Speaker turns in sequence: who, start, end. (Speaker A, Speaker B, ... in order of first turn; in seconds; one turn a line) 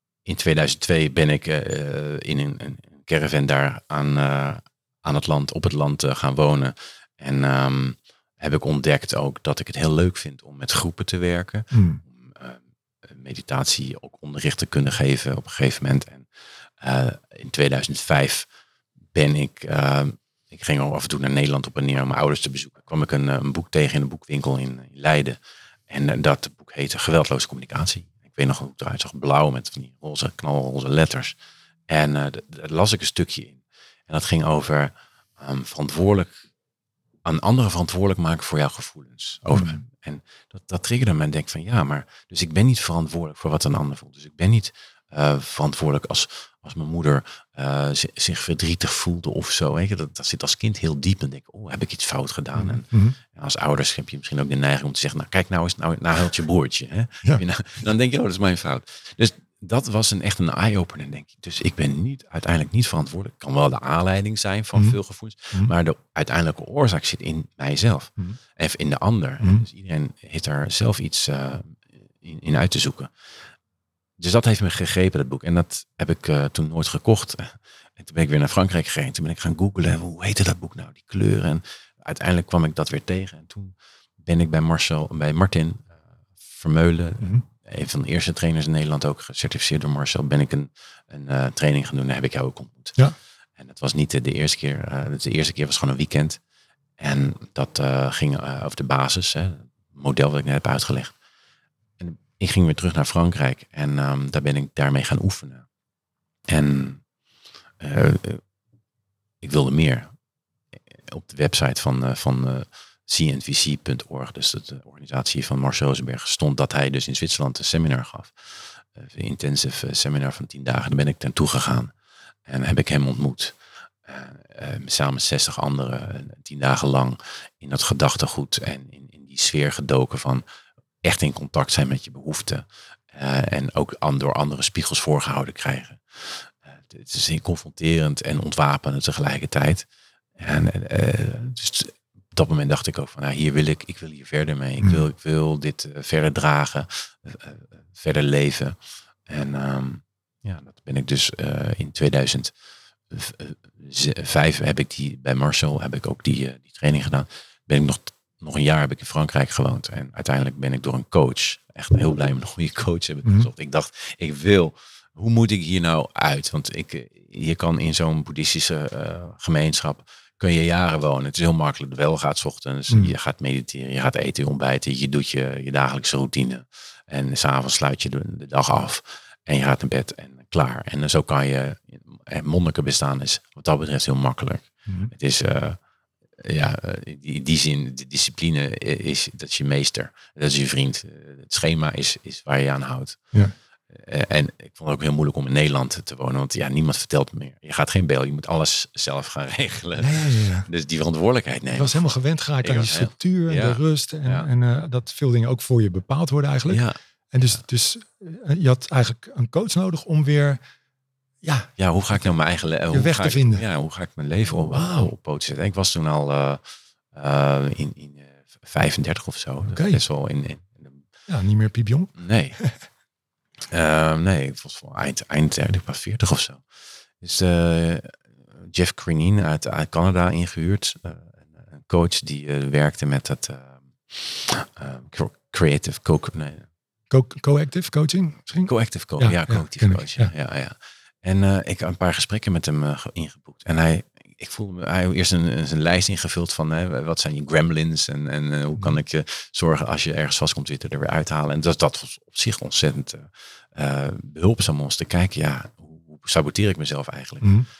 Speaker A: 0.2-16.3
Speaker B: 11.7-12.0
Speaker A: 16.8-18.5
Speaker A: 19.1-25.4
Speaker A: 25.9-31.4
Speaker A: 31.9-36.3
Speaker A: 37.2-73.1
Speaker B: 39.5-39.8
Speaker B: 52.5-53.2
Speaker B: 69.4-69.7
Speaker A: 74.2-85.9
Speaker A: 86.5-93.0
Speaker A: 93.6-96.4
Speaker A: 97.0-101.2
Speaker A: 102.0-105.7
Speaker A: 106.5-107.0
Speaker A: 107.8-108.4
Speaker A: 109.4-110.1
Speaker A: 110.9-121.9
Speaker A: 122.5-130.4
Speaker A: 131.0-139.8
Speaker A: 140.4-152.5
Speaker A: 153.1-185.8
Speaker B: 184.9-185.1
Speaker A: 186.4-193.2
Speaker A: 193.9-202.1
Speaker B: 200.0-200.7
Speaker B: 201.7-210.6
Speaker A: 202.6-204.5
Speaker A: 206.7-207.0
Speaker B: 211.4-212.3
Speaker A: 211.8-221.0
Speaker B: 212.9-213.6
Speaker B: 214.7-215.1
Speaker B: 219.7-220.0
Speaker B: 221.3-222.7
Speaker A: 222.2-222.6
Speaker A: 223.7-236.7
Speaker B: 237.1-240.3
Speaker A: 238.6-257.6
Speaker B: 257.4-257.7